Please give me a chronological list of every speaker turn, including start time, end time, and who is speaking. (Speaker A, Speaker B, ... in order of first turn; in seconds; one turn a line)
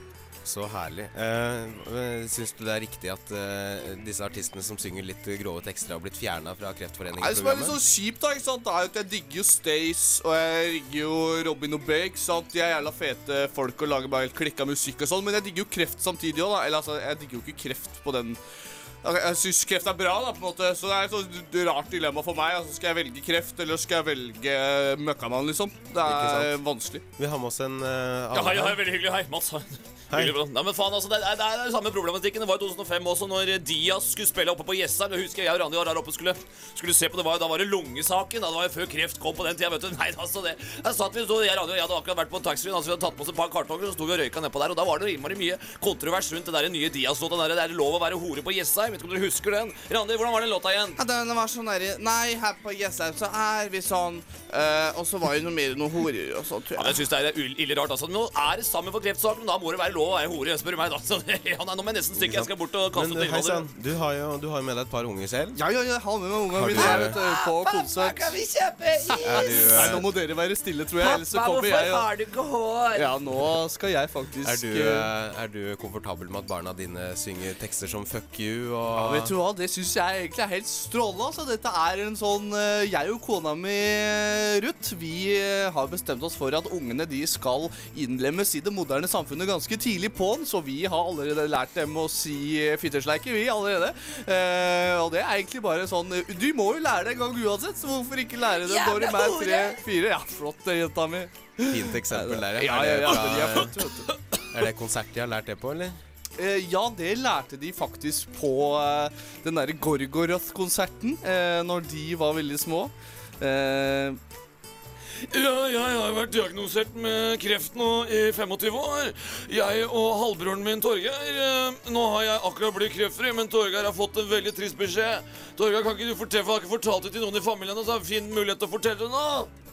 Speaker A: 0.4-7.8
Speaker B: 7.2-18.4
Speaker B: 19.0-27.0
Speaker A: 26.0-26.6
Speaker A: 27.2-28.8
Speaker C: 28.3-51.0
Speaker A: 30.1-30.4
Speaker B: 51.0-57.0
Speaker C: 56.8-63.6
Speaker A: 62.2-65.6
Speaker B: 65.5-68.3
Speaker A: 66.5-67.2
Speaker C: 66.8-69.9
Speaker A: 69.2-70.0
Speaker B: 69.3-72.0
Speaker C: 71.0-73.0
Speaker B: 72.9-75.1
Speaker A: 74.4-79.3
Speaker B: 78.9-104.1
Speaker C: 98.6-99.8
Speaker A: 101.7-103.8
Speaker A: 104.5-106.0
Speaker B: 106.4-114.2
Speaker C: 115.2-129.5